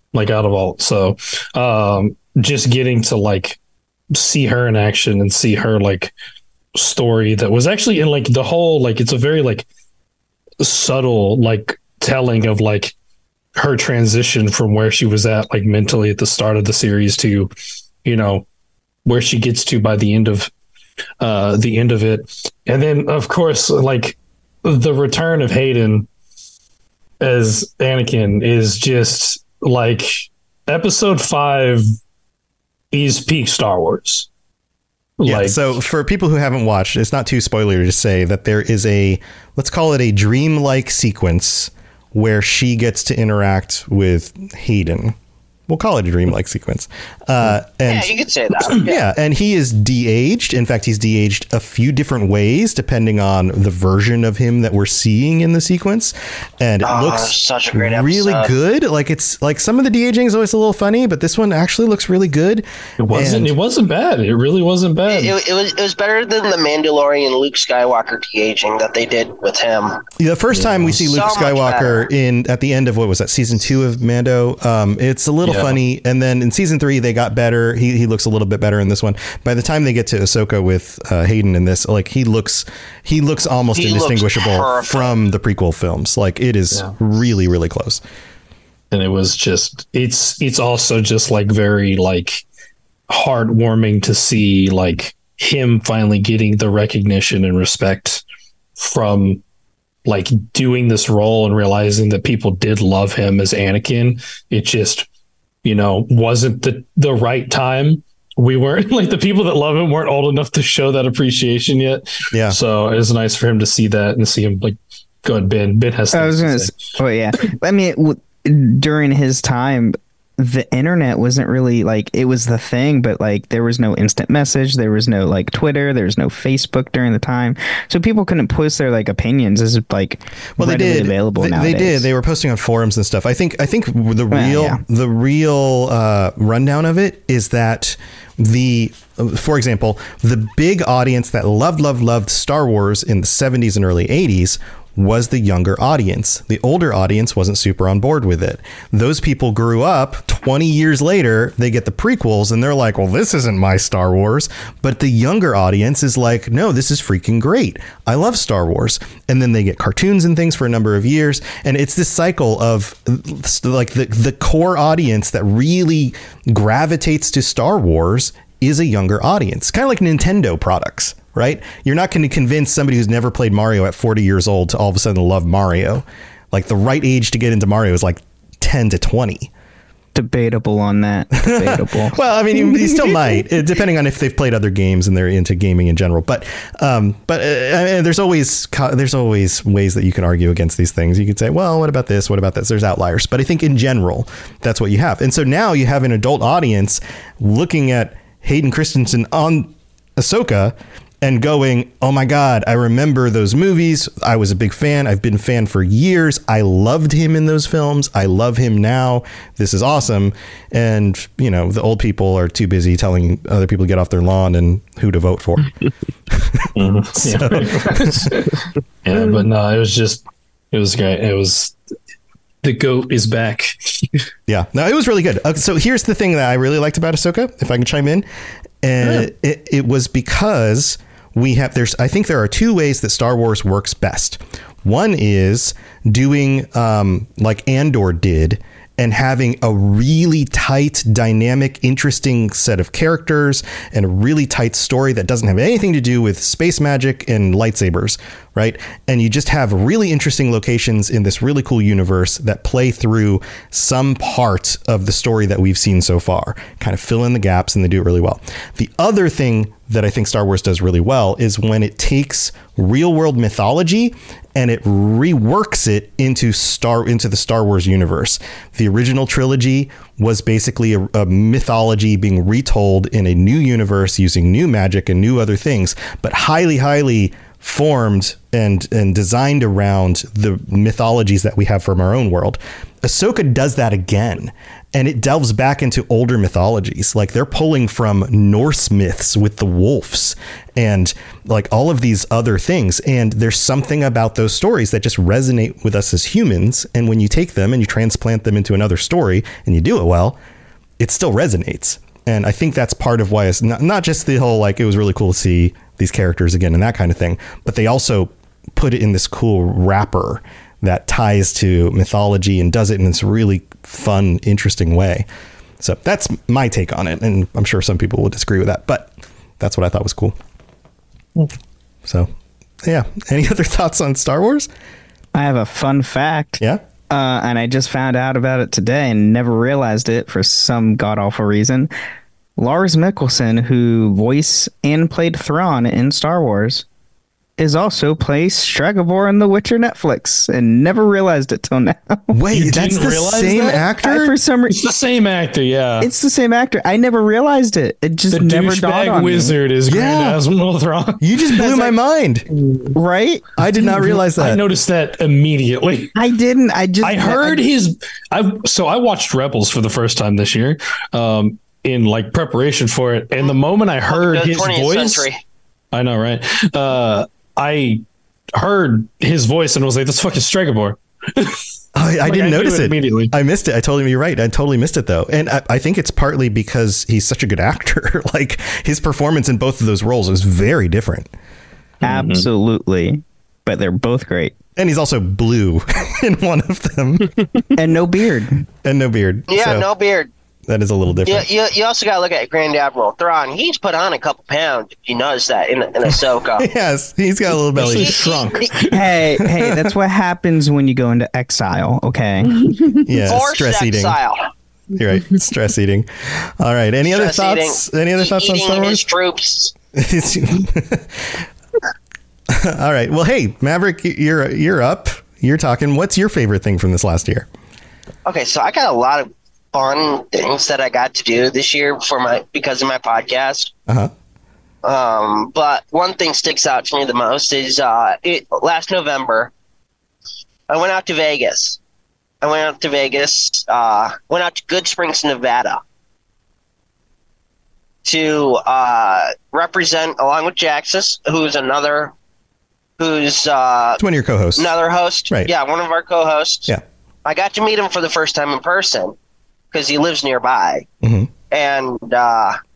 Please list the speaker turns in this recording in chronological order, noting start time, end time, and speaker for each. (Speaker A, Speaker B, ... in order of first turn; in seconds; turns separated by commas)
Speaker A: 0.1-3.6, Speaker A: 4.1-6.1, Speaker A: 6.8-9.7, Speaker A: 10.6-12.9, Speaker A: 13.6-17.5, Speaker A: 18.1-18.4, Speaker A: 19.1-20.5, Speaker A: 21.2-26.1, Speaker A: 27.2-31.8, Speaker A: 32.9-34.3, Speaker A: 35.2-35.6, Speaker B: 35.2-45.2, Speaker B: 45.7-48.1, Speaker C: 47.9-49.0, Speaker B: 48.7-63.5, Speaker C: 56.8-58.5, Speaker A: 63.0-65.4, Speaker C: 65.1-70.0, Speaker B: 70.2-88.0, Speaker A: 70.5-71.0, Speaker C: 71.0-72.1, Speaker A: 75.4-75.8, Speaker C: 83.7-85.2, Speaker A: 88.9-92.4, Speaker A: 93.1-98.2, Speaker A: 98.8-99.4, Speaker A: 100.1-105.1, Speaker A: 105.6-116.7, Speaker B: 112.3-112.6, Speaker D: 116.1-132.1, Speaker B: 130.6-179.5, Speaker D: 134.3-134.8, Speaker D: 180.2-183.4, Speaker B: 181.4-215.7, Speaker B: 216.3-216.7, Speaker A: 216.8-221.8, Speaker B: 217.2-218.3, Speaker A: 222.6-224.2, Speaker B: 224.5-228.3, Speaker B: 228.8-300.4, Speaker B: 301.0-315.3, Speaker B: 315.8-320.4, Speaker B: 322.8-324.7, Speaker D: 325.4-331.9, Speaker D: 332.6-336.9, Speaker D: 337.6-342.4, Speaker B: 342.3-344.4, Speaker A: 342.5-343.8, Speaker D: 343.5-344.8, Speaker A: 344.7-346.1, Speaker D: 346.0-349.6, Speaker A: 348.3-351.9, Speaker B: 349.9-350.4, Speaker B: 351.2-352.4, Speaker D: 352.9-353.5, Speaker B: 353.6-354.6, Speaker A: 354.3-356.1, Speaker D: 356.1-357.6, Speaker A: 357.0-365.3, Speaker C: 364.1-365.4, Speaker A: 365.9-368.0, Speaker A: 368.6-371.6, Speaker B: 371.9-381.3, Speaker A: 372.2-373.3, Speaker A: 382.0-382.5, Speaker D: 382.0-384.6, Speaker B: 384.8-387.3, Speaker D: 387.8-388.7, Speaker B: 388.8-389.9, Speaker C: 389.5-390.3, Speaker B: 390.7-391.5, Speaker C: 391.2-396.7, Speaker B: 396.1-398.2, Speaker A: 397.8-399.0, Speaker C: 397.9-398.8, Speaker D: 398.9-402.8, Speaker B: 399.5-399.9, Speaker B: 403.1-404.2, Speaker C: 403.3-404.4, Speaker B: 404.9-409.0, Speaker C: 407.1-409.7, Speaker B: 409.9-411.5, Speaker B: 412.5-417.5, Speaker C: 418.2-423.7, Speaker B: 423.9-424.1, Speaker C: 424.8-429.5, Speaker C: 430.7-431.8, Speaker C: 432.4-435.8, Speaker C: 438.1-442.1, Speaker C: 443.0-444.0, Speaker B: 444.0-444.7, Speaker C: 444.6-446.7, Speaker C: 447.2-449.1, Speaker C: 449.7-450.9, Speaker B: 451.0-451.3, Speaker C: 451.5-452.6